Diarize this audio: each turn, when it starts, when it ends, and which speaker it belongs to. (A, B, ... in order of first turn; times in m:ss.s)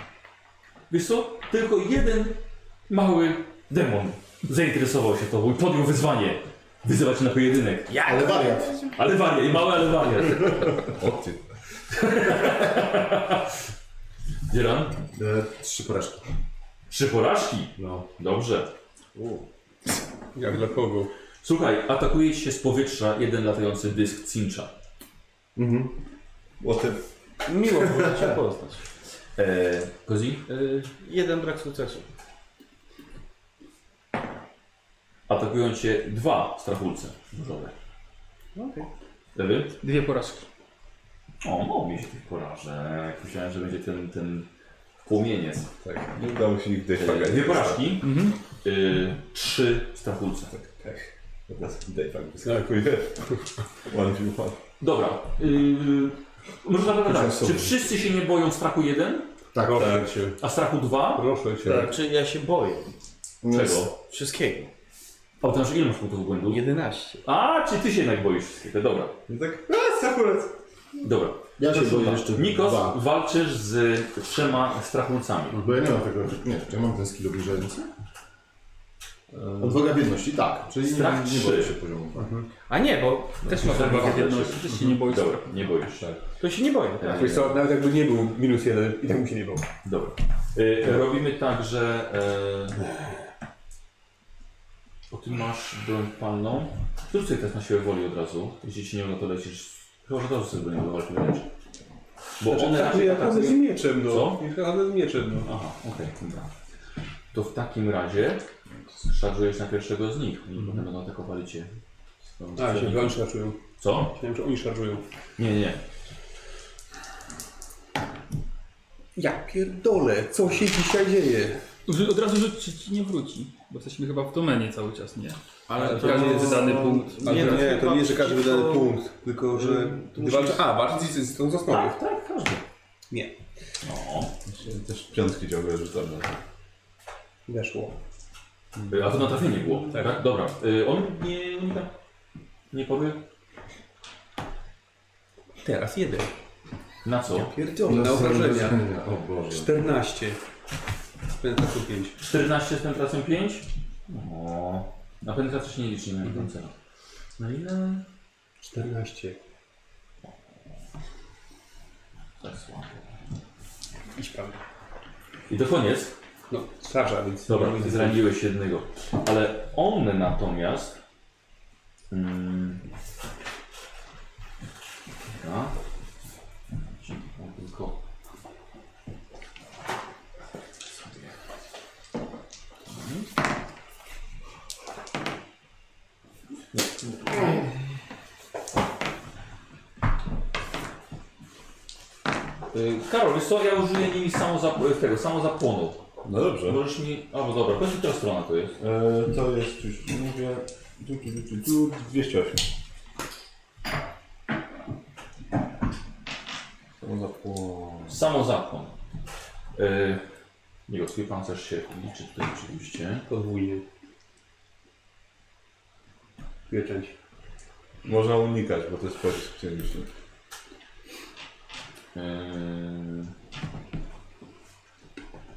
0:00.9-0:08.0 A
0:07.9-0:08.9 B
0:08.0-0:08.8 C
0:09.0-0:11.0 A
0:10.8-0:11.4 D
0:11.9-0:13.5 A
0:14.5-0:15.0 A
0:15.1-0:16.2 C
0:16.9-0:18.7 A
0:17.8-0:18.0 C
0:19.2-0:19.4 B
0:20.4-0:21.1 E
0:21.4-0:24.7 A
0:25.6-0:26.0 C
0:26.6-0:27.0 D
0:27.4-0:28.8 B
0:27.7-0:28.2 D
0:29.4-0:30.4 A
0:30.5-0:32.1 B
0:35.3-0:37.7 A
0:38.6-0:38.9 B
0:39.4-0:39.8 A
0:39.8-0:40.5 F
0:41.4-0:44.5 A
0:45.0-0:45.7 A
0:45.8-0:48.0 D
0:47.0-0:50.5 A
0:48.0-0:48.4 F
0:50.5-0:53.2 D
0:52.4-0:52.7 E
0:53.8-0:54.6 D
0:54.8-0:59.3 A
0:57.0-0:58.0 C
0:59.5-1:00.1 C
0:59.6-1:00.4 E
1:00.4-1:01.3 A
1:01.1-1:02.0 E
1:01.7-1:01.9 F
1:01.8-1:02.9 B
1:03.4-1:03.9 C
1:03.5-1:03.9 A
1:04.0-1:04.7 B
1:05.4-1:06.6 A
1:06.5-1:07.2 B
1:07.2-1:09.1 A
1:09.3-1:10.5 D
1:11.0-1:15.6 A
1:11.6-1:13.0 C
1:15.5-1:15.8 E
1:15.6-1:17.9 C
1:19.3-1:19.9 D
1:19.6-1:22.4 C
1:20.8-1:21.7 A
1:22.2-1:22.5 E
1:22.6-1:24.3 B
1:23.4-1:26.1 A
1:23.5-1:25.5 F
1:24.7-1:25.0 E
1:26.4-1:27.2 B
1:27.0-1:27.6 A
1:27.1-1:29.7 E
1:29.8-1:32.8 A
1:35.1-1:41.5 A
1:42.4-1:44.4 A
1:42.4-1:45.5 E
1:43.2-1:43.6 B
1:45.4-1:46.5 A
1:47.3-1:48.5 A
1:49.0-1:51.7 A
1:50.6-1:50.8 E
1:52.3-1:53.2 A
1:52.6-1:53.6 E
1:53.8-1:54.1 A
1:54.1-1:55.0 E
1:55.4-1:55.8 A
1:59.2-2:01.6 E
2:01.9-2:05.4 F
2:05.7-2:08.9 B
2:05.8-2:12.0 E
2:05.9-2:07.8 F
2:09.5-2:10.6 B
2:11.7-2:12.6 A
2:13.8-2:14.3 A
2:14.5-2:16.4 D
2:17.5-2:18.0 E
2:18.8-2:19.3 E
2:18.9-2:21.9 A
2:19.9-2:20.2 E
2:22.7-2:23.2 A
2:25.6-2:26.4 E
2:27.0-2:27.5 A
2:27.3-2:28.9 E
2:27.8-2:29.8 C
2:29.4-2:30.4 E
2:31.4-2:32.2 E
2:32.2-2:36.7 A
2:37.4-2:38.0 A
2:38.6-2:39.4 E
2:42.4-2:43.1 A
2:44.1-2:44.6 E
2:45.5-2:46.2 A
2:46.5-2:48.3 E
2:47.5-2:51.0 A
2:52.1-2:52.8 A
2:55.3-2:55.8 A
2:57.0-2:58.0 A
3:00.9-3:01.3 A
3:02.9-3:03.3 A
3:06.8-3:07.5 A
3:12.7-3:16.0 A
3:16.2-3:16.8 D
3:16.6-3:18.8 A
3:18.8-3:22.7 D
3:27.0-3:28.2 D
3:28.1-3:29.0 A
3:29.8-3:30.2 A
3:30.9-3:33.2 A
3:33.3-3:33.8 E
3:36.7-3:37.1 E
3:38.0-3:40.1 D
3:42.1-3:43.3 A